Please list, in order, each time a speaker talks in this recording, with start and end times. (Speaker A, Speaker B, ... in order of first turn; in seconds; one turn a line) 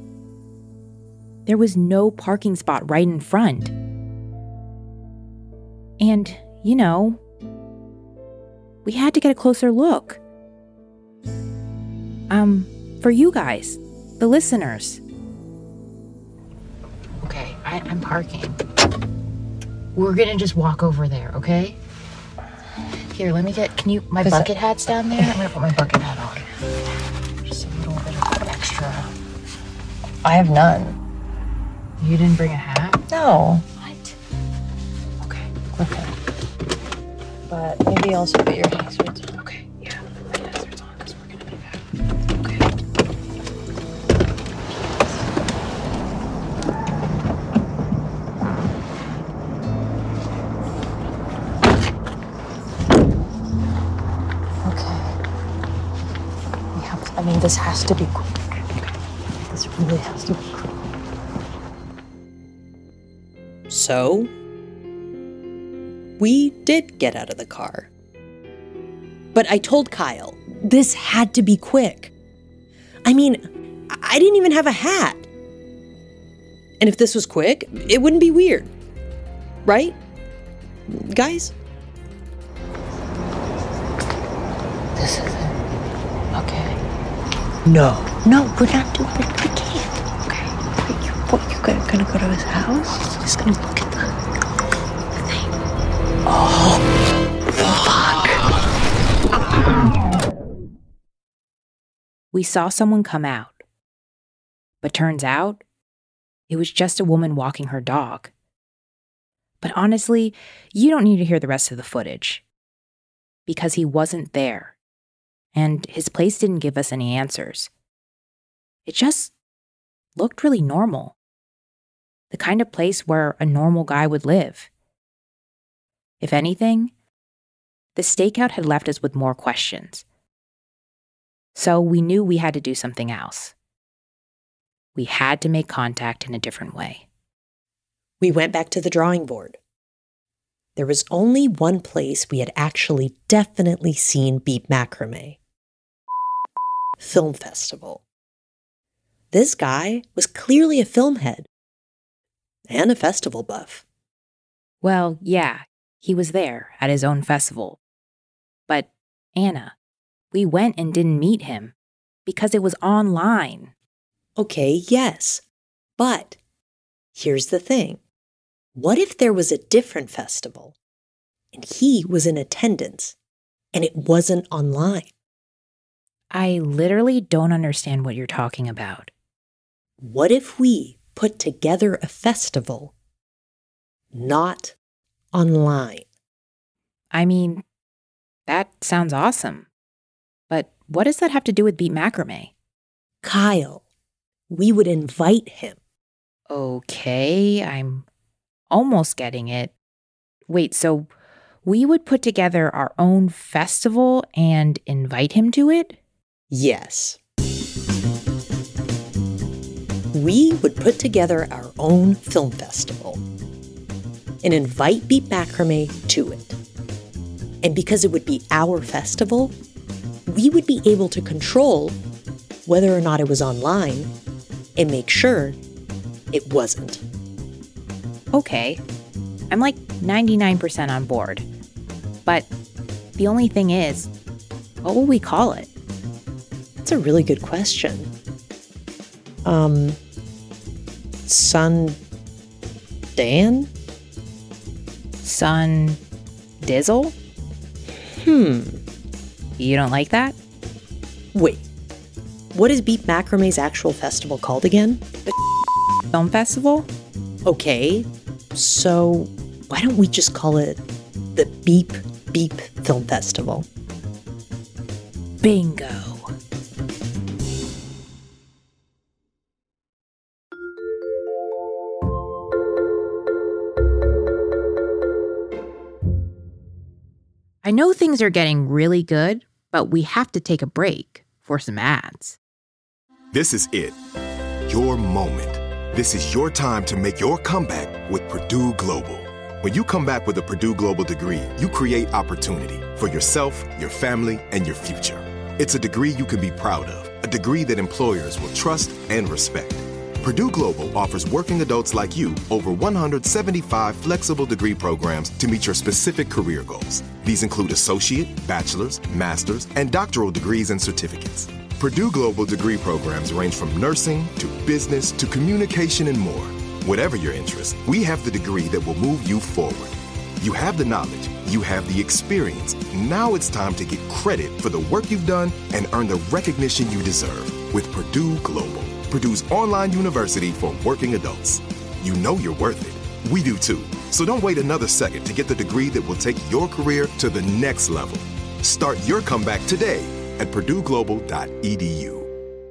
Speaker A: 1.4-3.7
Speaker A: 6.0-7.2
Speaker A: 8.8-10.2
Speaker A: 12.3-15.0
Speaker B: 17.2-18.6
Speaker B: 19.9-21.8
Speaker B: 23.1-26.4
Speaker C: 24.2-24.5
Speaker A: 24.3-25.2
Speaker C: 25.1-25.4
Speaker B: 27.5-29.1
Speaker C: 30.2-31.0
Speaker B: 32.0-32.9
Speaker C: 33.1-33.7
Speaker C: 37.5-40.0
Speaker C: 40.8-41.1
Speaker C: 54.6-55.1
Speaker C: 56.8-58.4
Speaker C: 59.6-60.6
Speaker D: 63.7-64.3
Speaker D: 66.2-67.9
Speaker D: 69.3-72.1
Speaker D: 73.0-75.3
Speaker D: 76.8-78.7
Speaker D: 79.7-79.9
Speaker D: 80.9-81.5
Speaker D: 87.7-89.9
Speaker C: 90.3-94.0
Speaker D: 90.9-92.2
Speaker D: 93.2-93.7
Speaker C: 96.4-96.7
Speaker C: 97.9-98.2
Speaker A: 102.3-103.6
Speaker A: 104.8-105.6
Speaker A: 106.5-108.3
Speaker A: 109.6-112.4
Speaker A: 113.5-114.8
Speaker A: 115.5-117.7
Speaker A: 118.8-119.3
Speaker A: 120.2-121.1
Speaker A: 122.3-124.7
Speaker A: 126.2-126.9
Speaker A: 128.0-130.0
Speaker A: 131.5-133.5
Speaker A: 134.9-137.0
Speaker D: 138.2-139.6
Speaker D: 140.8-145.4
Speaker D: 147.0-148.0
Speaker D: 149.3-151.5
Speaker D: 152.7-153.8
Speaker A: 154.8-157.8
Speaker A: 158.7-159.7
Speaker A: 160.3-161.7
Speaker A: 162.2-163.7
Speaker D: 164.3-165.4
Speaker D: 166.0-166.4
Speaker D: 167.1-168.0
Speaker D: 168.7-170.7
Speaker D: 171.5-173.1
Speaker D: 173.7-175.1
Speaker A: 176.3-179.1
Speaker D: 180.0-182.9
Speaker D: 184.1-184.7
Speaker D: 185.3-186.1
Speaker A: 187.1-187.6
Speaker A: 188.5-189.7
Speaker A: 190.5-192.5
Speaker D: 193.2-193.8
Speaker D: 194.5-195.8
Speaker A: 196.5-198.1
Speaker A: 198.7-199.7
Speaker A: 200.5-201.1
Speaker A: 201.6-206.0
Speaker D: 206.5-207.2
Speaker D: 210.1-213.2
Speaker D: 214.4-216.6
Speaker D: 217.6-219.6
Speaker D: 220.2-222.0
Speaker D: 222.7-224.1
Speaker D: 224.8-225.6
Speaker D: 226.3-227.0
Speaker A: 228.3-228.8
Speaker A: 229.5-231.4
Speaker A: 233.2-234.1
Speaker A: 234.8-235.7
Speaker D: 236.8-238.1
Speaker D: 239.4-240.0
Speaker D: 241.2-242.0
Speaker D: 243.2-243.7
Speaker A: 245.2-246.0
Speaker A: 246.6-247.1
Speaker D: 247.9-248.8
Speaker A: 249.6-250.3
Speaker D: 251.3-251.7
Speaker D: 252.5-255.1
Speaker A: 256.1-256.9
Speaker D: 257.4-260.8
Speaker D: 261.3-263.7
Speaker A: 265.4-266.3
Speaker A: 277.6-282.4
Speaker E: 283.3-283.9
Speaker E: 284.7-342.3